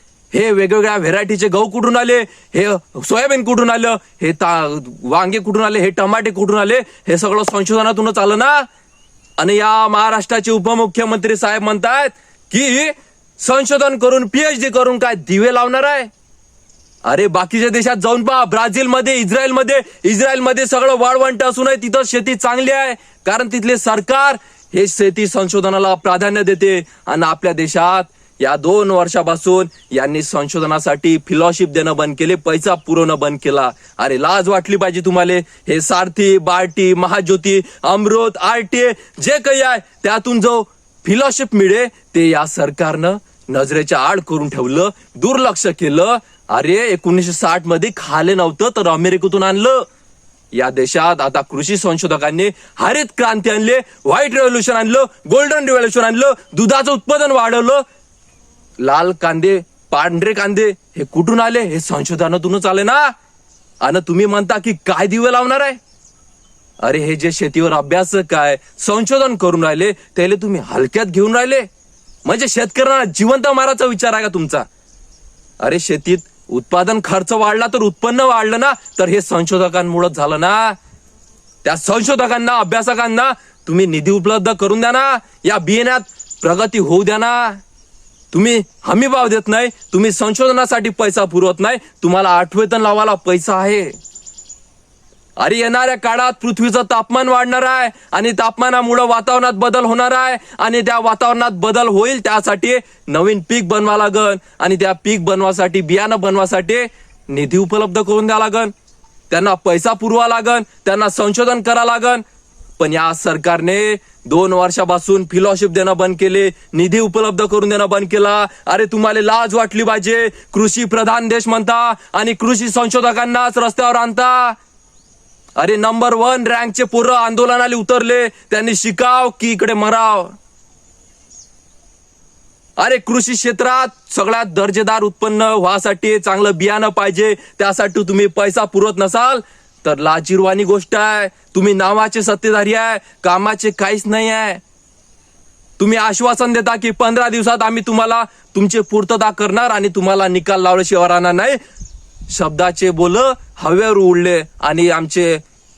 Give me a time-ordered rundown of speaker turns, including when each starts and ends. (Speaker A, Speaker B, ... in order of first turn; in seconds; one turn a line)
Speaker A: 0.3-8.7
Speaker A: 9.4-16.1
Speaker A: 17.0-49.8
Speaker A: 50.5-57.8
Speaker A: 58.8-63.1
Speaker A: 63.8-65.8
Speaker A: 66.8-71.7
Speaker A: 72.2-74.7
Speaker A: 75.6-80.8
Speaker A: 81.6-87.6
Speaker A: 88.3-94.0
Speaker A: 95.4-108.7
Speaker A: 109.3-112.2
Speaker A: 112.8-124.5
Speaker A: 125.6-130.3
Speaker A: 132.8-144.6
Speaker A: 145.8-151.6
Speaker A: 152.3-155.4